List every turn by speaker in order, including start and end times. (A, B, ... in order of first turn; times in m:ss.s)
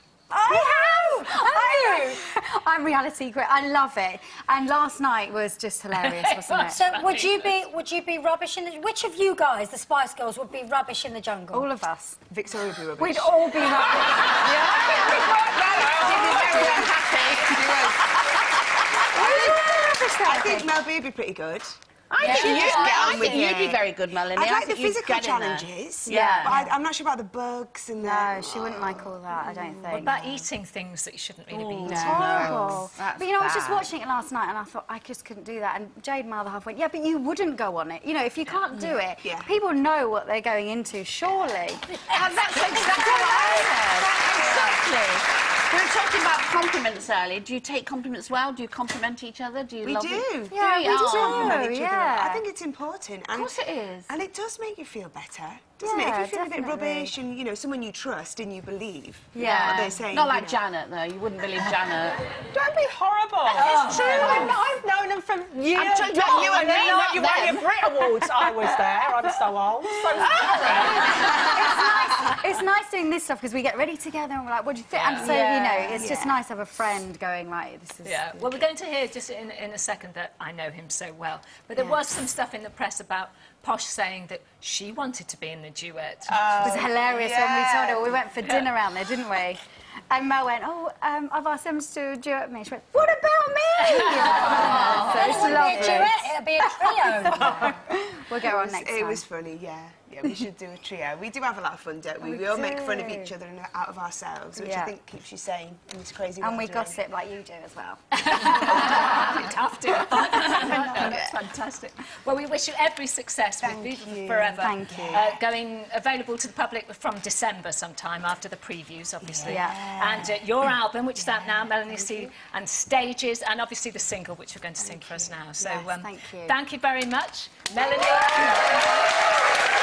0:00.3-0:06.8 A
0:00.4-0:02.2 B
0:05.9-0:07.5 C
0:06.7-0:11.7 B
0:11.5-0:12.2 A
0:12.3-0:14.2 D
0:13.0-0:15.3 A
0:14.4-0:19.2 E
0:14.5-0:16.9 F
0:14.9-0:16.9 D
0:17.5-0:18.0 D
0:19.1-0:20.7 A
0:19.3-0:19.5 D
0:20.2-0:29.1 D
0:22.1-0:26.6 E
0:22.2-0:22.7 A
0:22.4-0:23.2 B
0:22.6-0:23.0 F
0:26.1-0:26.7 A
0:28.0-0:30.3 A
0:29.5-0:30.2 E
0:29.9-0:32.5 C
0:31.5-0:33.9 E
0:31.9-0:42.0 A
0:39.2-0:39.5 D
0:41.9-0:44.0 B
0:42.1-0:51.6 E
0:43.1-0:43.9 A
0:49.8-1:00.6 D
0:50.5-0:52.4 A
0:53.3-0:54.1 E
0:55.8-0:57.2 A
0:59.3-1:00.0 A
0:59.4-1:02.2 E
1:02.5-1:11.3 F
1:03.5-1:04.3 C
1:03.6-1:04.6 E
1:03.9-1:04.4 A
1:05.6-1:08.5 E
1:10.3-1:10.5 E
1:10.7-1:18.6 A
1:11.2-1:11.8 E
1:14.9-1:15.3 C
1:15.2-1:16.1 E
1:15.9-1:16.4 D
1:18.0-1:26.8 C
1:26.3-1:28.1 D
1:26.6-1:39.2 A
1:33.8-1:34.8 C
1:34.2-1:37.7 B
1:34.9-1:36.0 E
1:35.0-1:35.5 D
1:37.2-1:37.8 D
1:38.4-1:47.0 D
1:42.2-1:43.3 A
1:44.5-1:44.9 A
1:46.4-1:49.2 A
1:48.1-2:09.0 C
1:50.1-1:51.3 D
1:50.2-1:51.1 A
1:53.6-1:55.4 D
1:54.5-1:55.3 A
1:59.2-2:00.4 D
1:59.4-2:00.0 A
2:01.2-2:01.8 D
2:04.8-2:05.3 D
2:05.6-2:06.6 A